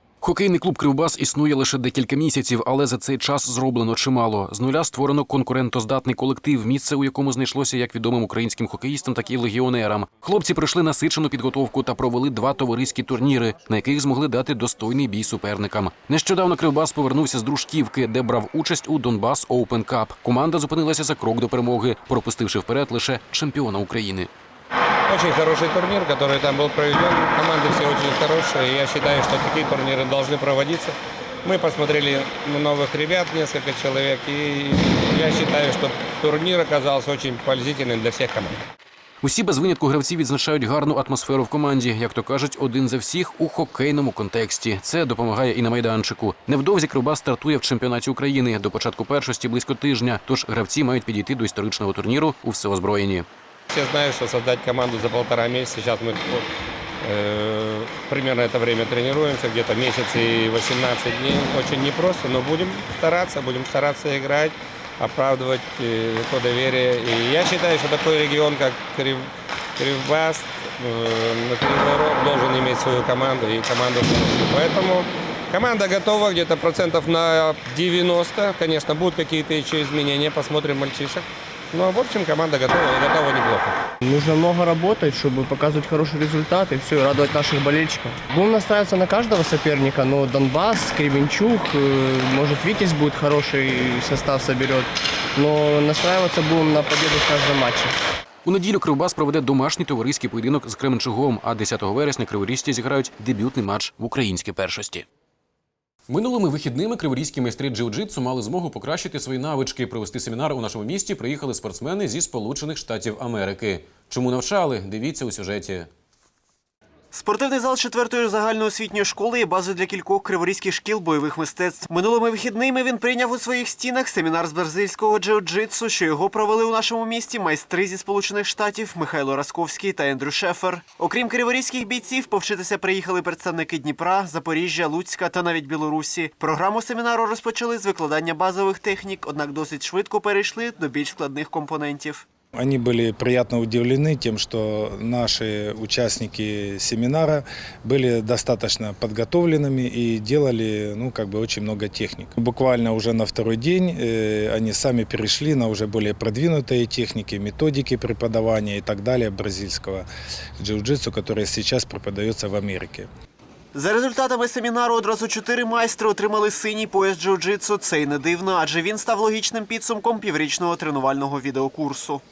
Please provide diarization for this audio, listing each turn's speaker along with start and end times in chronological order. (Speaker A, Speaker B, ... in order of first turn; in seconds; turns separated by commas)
Speaker A: 0.2-24.3, Speaker B: 25.1-38.6, Speaker A: 39.2-53.2, Speaker B: 53.7-56.5, Speaker B: 57.0-83.8, Speaker C: 84.0-98.0, Speaker A: 98.5-105.0, Speaker A: 106.1-115.9, Speaker D: 117.1-142.2, Speaker E: 142.6-160.1, Speaker E: 160.6-163.1, Speaker D: 163.7-172.2